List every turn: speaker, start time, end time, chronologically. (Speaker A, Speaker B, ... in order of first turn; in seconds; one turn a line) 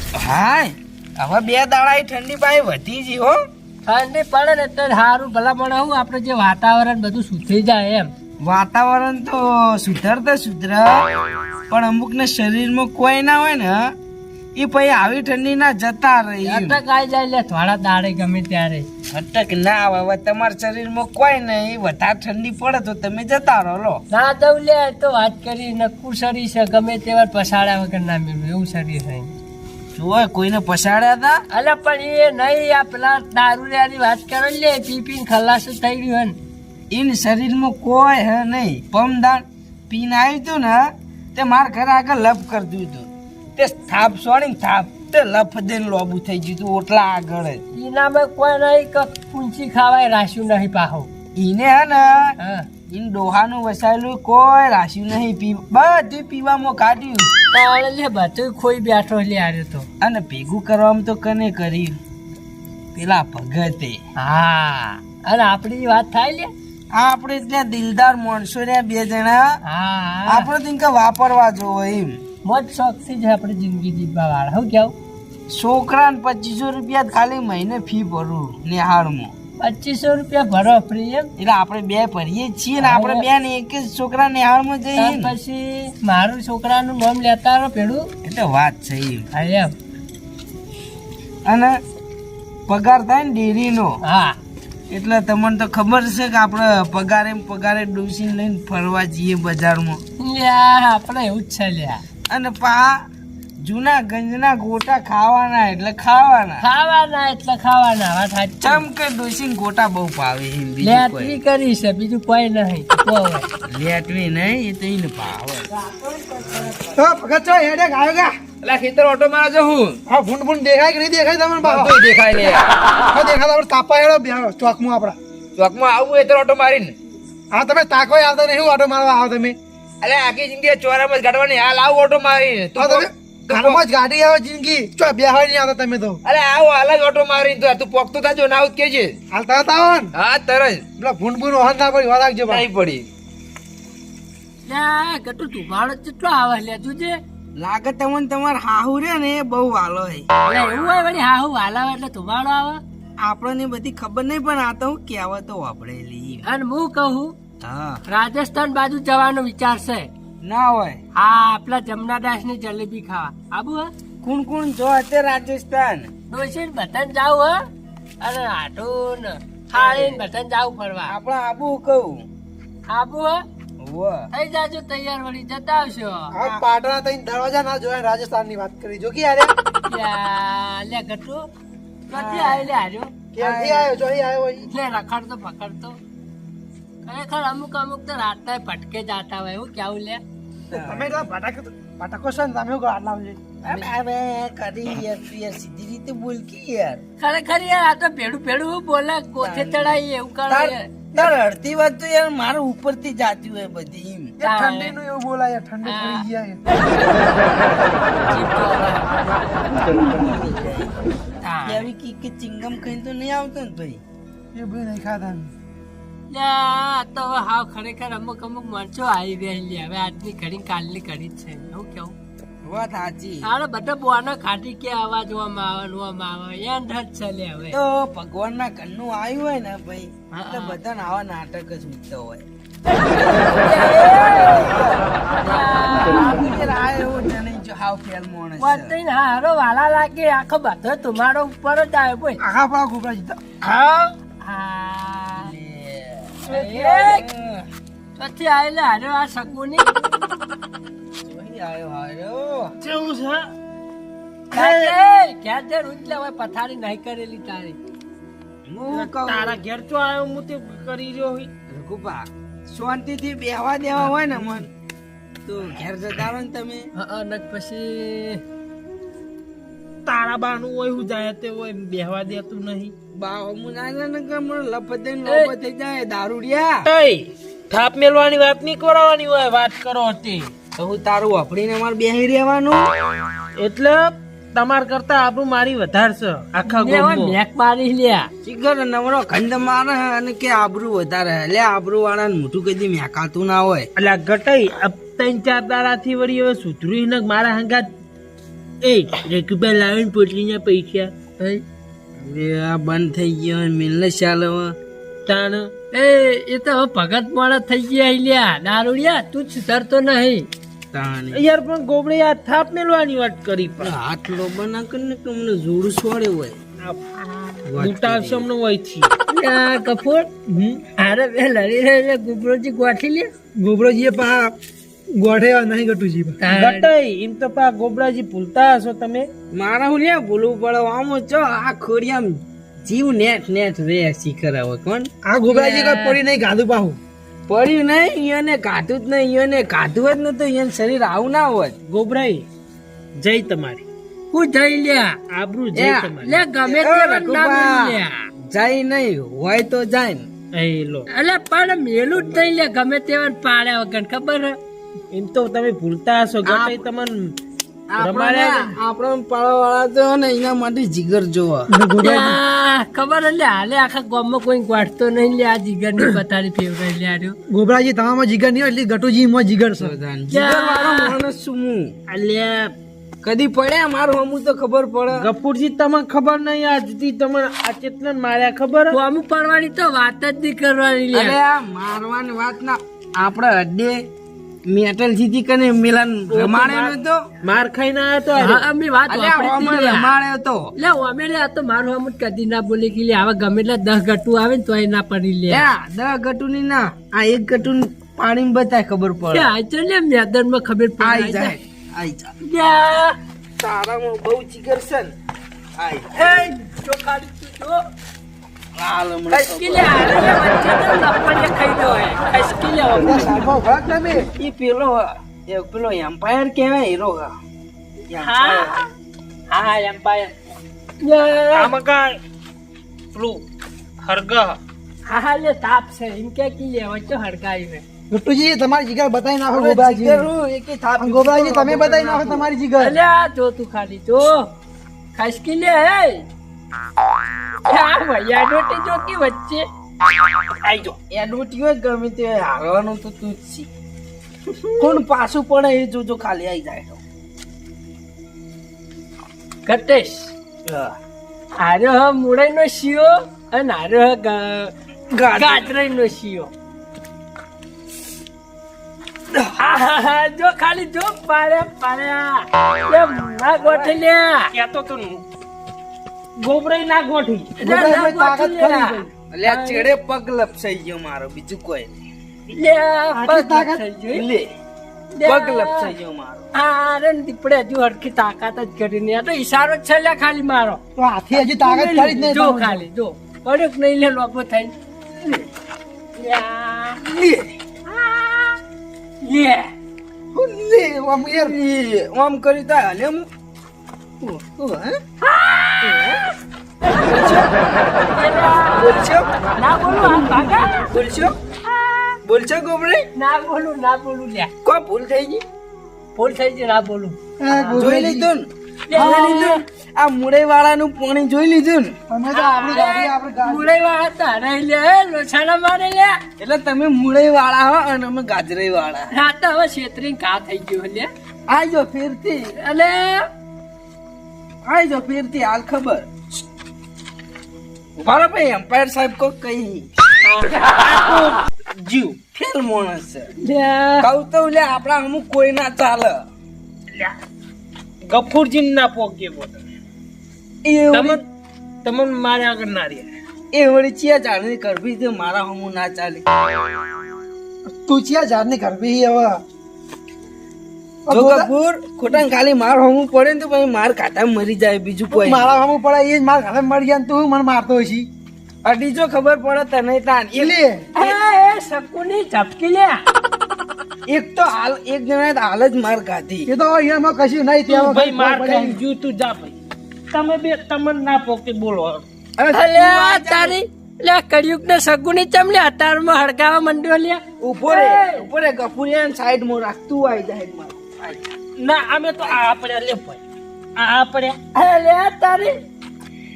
Speaker A: 0.2-3.4
Speaker B: 3.9-8.1
Speaker A: 8.4-11.1
Speaker A: 11.7-13.8
Speaker A: 14.6-16.8
Speaker B: 16.4-18.9
Speaker A: 19.1-24.0
Speaker B: 24.1-29.3
Speaker A: 30.0-31.4
Speaker B: 31.5-36.4
Speaker A: 36.9-47.6
Speaker B: 47.7-51.1
Speaker A: 51.4-52.3
Speaker B: 52.4-52.7
Speaker A: 52.9-57.3
Speaker B: 57.5-59.9
Speaker A: 60.0-62.0
Speaker A: 63.0-64.0
Speaker B: 64.2-66.5
Speaker A: 66.9-69.5
Speaker B: 69.6-70.5
Speaker A: 70.3-72.2
Speaker B: 72.5-74.9
Speaker A: 75.5-79.3
Speaker B: 79.6-81.3
Speaker A: 81.4-85.3
Speaker B: 82.8-83.3
Speaker B: 85.0-88.1
Speaker A: 88.2-89.3
Speaker B: 89.3-89.7
Speaker A: 91.5-91.8
Speaker A: 92.7-94.0
Speaker B: 94.0-94.4
Speaker A: 94.9-100.0
Speaker B: 100.2-102.0
Speaker A: 102.3-103.0
Speaker A: 103.6-106.6
Speaker B: 106.6-108.8
Speaker A: 108.6-111.4
Speaker B: 110.8-113.5
Speaker A: 113.7-115.7
Speaker C: 116.9-118.3
Speaker D: 118.6-120.0
Speaker C: 120.1-122.0
Speaker D: 121.6-122.7
Speaker C: 123.1-125.2
Speaker D: 125.6-126.9
Speaker C: 127.5-129.6
Speaker D: 130.0-133.8
Speaker C: 132.8-136.2
Speaker D: 136.2-139.2
Speaker C: 139.3-140.1
Speaker D: 140.2-140.8
Speaker C: 141.0-142.7
Speaker D: 142.5-143.1
Speaker B: 144.7-147.2
Speaker A: 147.6-150.3
Speaker B: 150.4-152.8
Speaker A: 153.2-156.4
Speaker B: 156.4-157.3
Speaker A: 157.6-158.0
Speaker B: 158.1-160.1
Speaker A: 160.4-161.0
Speaker B: 161.2-163.9
Speaker A: 164.2-166.1
Speaker B: 166.3-167.6
Speaker B: 168.2-171.2
Speaker A: 169.7-170.2
Speaker A: 171.1-172.2
Speaker B: 172.9-173.4
Speaker A: 173.8-174.2
Speaker B: 174.3-176.3
Speaker C: 176.3-179.5
Speaker B: 179.9-181.4
Speaker B: 182.1-183.1
Speaker A: 182.1-182.7
Speaker C: 183.3-184.7
Speaker A: 183.4-183.9
Speaker B: 184.7-186.0
Speaker B: 187.1-190.2
Speaker A: 190.7-191.3
Speaker C: 190.7-193.9
Speaker A: 193.6-197.0
Speaker B: 197.2-200.8
Speaker A: 199.4-204.3
Speaker C: 204.4-206.6
Speaker B: 204.4-205.0
Speaker B: 205.8-206.3
Speaker B: 208.2-209.1
Speaker A: 209.8-210.9
Speaker B: 211.4-211.8
Speaker A: 211.7-214.0
Speaker C: 214.5-215.5
Speaker B: 216.3-222.2
Speaker A: 222.7-223.5
Speaker B: 223.4-227.8
Speaker A: 227.7-232.4
Speaker B: 230.3-230.8
Speaker B: 233.5-234.8
Speaker A: 234.0-235.0
Speaker B: 235.4-236.6
Speaker A: 236.1-238.9
Speaker B: 238.6-242.4
Speaker C: 242.4-243.4
Speaker B: 244.4-245.5
Speaker A: 245.4-247.7
Speaker B: 246.5-247.2
Speaker B: 248.2-249.9
Speaker A: 251.2-252.7
Speaker E: 252.8-253.5
Speaker B: 254.5-257.8
Speaker E: 254.5-254.9
Speaker A: 258.7-259.6
Speaker E: 258.9-261.5
Speaker A: 261.7-264.7
Speaker A: 265.5-266.9
Speaker B: 267.0-268.4
Speaker E: 270.1-272.9
Speaker A: 273.2-276.9
Speaker B: 275.3-275.5
Speaker E: 276.9-280.5
Speaker A: 280.8-282.9
Speaker E: 283.6-287.4
Speaker B: 286.7-288.3
Speaker A: 288.4-293.9
Speaker E: 294.0-297.9
Speaker E: 298.8-301.1
Speaker B: 301.4-301.6
Speaker A: 302.2-304.8
Speaker E: 305.3-305.7
Speaker B: 305.9-310.5
Speaker A: 310.9-311.4
Speaker E: 311.3-313.9
Speaker A: 313.8-316.6
Speaker A: 317.7-318.5
Speaker E: 317.8-319.1
Speaker B: 319.3-320.3
Speaker C: 320.5-320.8
Speaker B: 321.0-323.3
Speaker C: 323.6-324.5
Speaker C: 325.2-326.4
Speaker B: 326.4-326.9
Speaker E: 326.5-329.3
Speaker A: 329.5-335.1
Speaker C: 335.2-337.0
Speaker B: 335.5-336.2
Speaker A: 337.5-341.8
Speaker E: 341.9-342.5
Speaker E: 343.2-343.9
Speaker B: 344.3-345.1
Speaker E: 345.3-346.4
Speaker A: 345.7-348.0
Speaker B: 346.2-348.2
Speaker A: 348.5-350.3
Speaker E: 350.5-351.1
Speaker B: 351.1-354.6
Speaker E: 355.1-357.4
Speaker A: 356.4-356.8
Speaker A: 357.9-361.7
Speaker E: 358.0-358.8
Speaker C: 361.7-362.4
Speaker B: 362.0-367.4
Speaker C: 367.5-369.9
Speaker A: 369.8-371.9
Speaker B: 370.3-371.2
Speaker E: 372.1-372.7
Speaker A: 373.2-375.3
Speaker E: 375.1-379.0
Speaker B: 378.9-381.4
Speaker A: 381.1-384.0
Speaker A: 384.7-387.2
Speaker E: 386.3-388.7
Speaker B: 388.3-390.1
Speaker A: 389.1-390.7
Speaker B: 390.8-395.7
Speaker A: 395.5-399.5
Speaker B: 399.3-401.6
Speaker A: 401.0-402.3
Speaker B: 402.4-403.2
Speaker A: 403.6-405.1
Speaker A: 405.8-406.1
Speaker B: 406.1-407.8
Speaker A: 408.8-410.1
Speaker B: 409.3-413.3
Speaker C: 412.9-414.3
Speaker A: 414.4-417.3
Speaker A: 418.1-418.8
Speaker B: 418.2-418.9
Speaker B: 419.5-420.3
Speaker B: 421.0-421.7
Speaker E: 421.6-422.2
Speaker E: 423.1-423.4
Speaker E: 424.0-424.6
Speaker B: 425.1-427.8
Speaker C: 428.1-430.3
Speaker A: 429.5-432.5
Speaker C: 431.0-433.0
Speaker B: 432.8-434.4
Speaker B: 435.1-436.3
Speaker B: 437.7-439.6
Speaker E: 440.6-440.9
Speaker A: 441.1-443.7
Speaker B: 444.5-445.0
Speaker A: 444.8-447.0
Speaker B: 449.7-450.3
Speaker E: 450.7-450.9
Speaker B: 451.6-454.7
Speaker A: 455.1-455.7
Speaker B: 455.3-456.5
Speaker B: 459.5-464.5
Speaker A: 463.6-464.0
Speaker E: 464.5-465.2
Speaker E: 466.4-467.6
Speaker B: 467.6-469.9
Speaker C: 467.6-469.1
Speaker A: 469.3-472.0
Speaker B: 472.5-474.2
Speaker C: 473.2-473.8
Speaker A: 474.1-474.5
Speaker B: 475.1-475.9
Speaker A: 475.2-476.5
Speaker B: 476.6-480.8
Speaker C: 481.0-482.9
Speaker B: 481.3-484.7
Speaker B: 486.2-487.0
Speaker A: 487.1-487.5
Speaker B: 487.9-488.5
Speaker B: 489.2-489.7
Speaker A: 490.3-493.3
Speaker C: 491.1-491.6
Speaker A: 494.2-494.9
Speaker B: 495.2-496.2
Speaker A: 495.8-496.2
Speaker A: 497.0-497.5
Speaker B: 498.1-499.0
Speaker A: 498.8-499.3
Speaker B: 499.6-500.9
Speaker A: 500.9-501.3
Speaker B: 501.7-502.2
Speaker A: 502.2-503.1
Speaker B: 503.2-504.5
Speaker A: 504.6-505.4
Speaker B: 506.2-507.8
Speaker C: 507.4-508.3
Speaker A: 507.7-511.9
Speaker B: 508.9-509.6
Speaker C: 508.9-509.5
Speaker C: 512.1-513.7
Speaker B: 512.3-516.2
Speaker A: 516.4-519.1
Speaker B: 519.1-521.1
Speaker A: 521.5-522.5
Speaker B: 522.6-523.3
Speaker A: 524.7-526.1
Speaker A: 528.0-529.9
Speaker B: 530.2-530.8
Speaker E: 530.7-532.2
Speaker A: 532.4-533.3
Speaker B: 533.4-534.1
Speaker A: 534.0-536.2
Speaker E: 538.0-539.7
Speaker A: 540.6-541.2
Speaker E: 540.9-541.2
Speaker E: 541.8-543.1
Speaker A: 543.5-546.2
Speaker C: 547.8-549.4
Speaker C: 551.1-551.5
Speaker A: 551.1-555.5
Speaker C: 555.1-558.1
Speaker A: 558.6-561.2
Speaker C: 560.3-560.8
Speaker B: 561.0-563.0
Speaker A: 564.1-566.5
Speaker C: 566.5-568.8
Speaker E: 567.7-569.6
Speaker E: 570.1-572.0
Speaker A: 572.4-573.5
Speaker B: 572.5-578.3
Speaker A: 577.4-581.2
Speaker E: 581.6-583.2
Speaker E: 583.8-584.4
Speaker B: 584.5-585.6